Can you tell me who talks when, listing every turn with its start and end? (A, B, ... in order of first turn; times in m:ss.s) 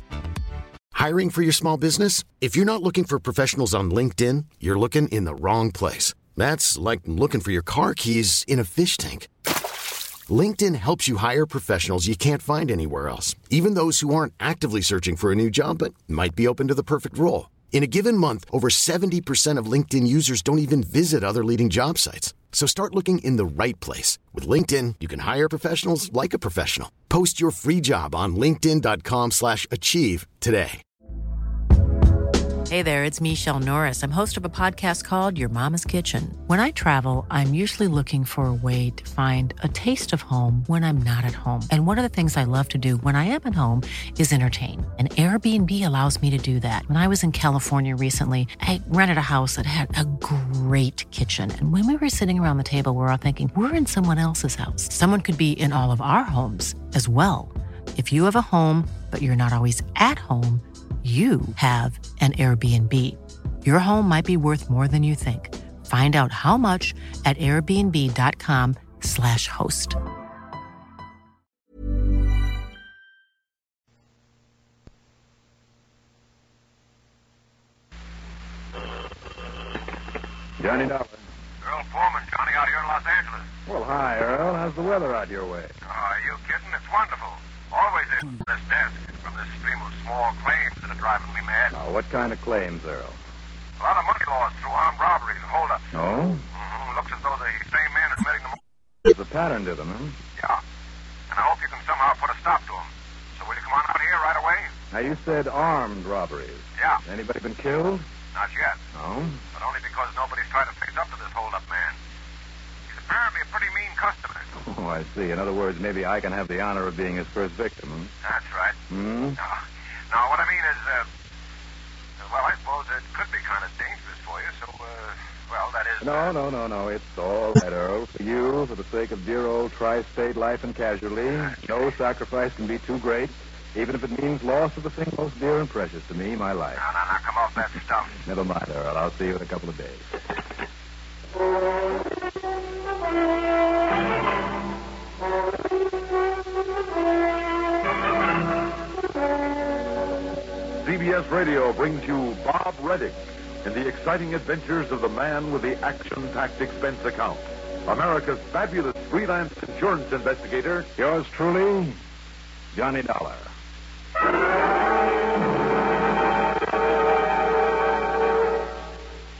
0:00.9-0:09.3 A
0:10.3-0:30.8 A
0:32.7-1:10.0 B
1:20.6-1:21.2 C
1:21.6-1:23.5 D
1:23.7-1:25.8 C
1:25.8-1:31.7 D
1:31.7-1:33.2 C
1:33.8-1:35.9 D
1:35.9-1:36.4 C
1:36.5-1:38.6 D
1:39.1-1:40.2 C
1:41.3-1:44.7 D
1:44.9-1:48.1 C
1:48.3-1:48.8 D
1:48.9-1:49.4 C
1:49.5-1:52.0 D
1:52.9-1:54.5 D
1:54.6-1:58.1 C
1:58.2-1:58.8 D
1:58.9-1:59.4 C
1:59.4-2:01.1 D
2:02.2-2:06.3 D
2:06.0-2:16.8 C
2:16.8-2:18.1 D
2:18.2-2:20.2 C
2:30.8-2:40.9 E
2:41.0-2:42.0 C
2:42.7-2:43.5 C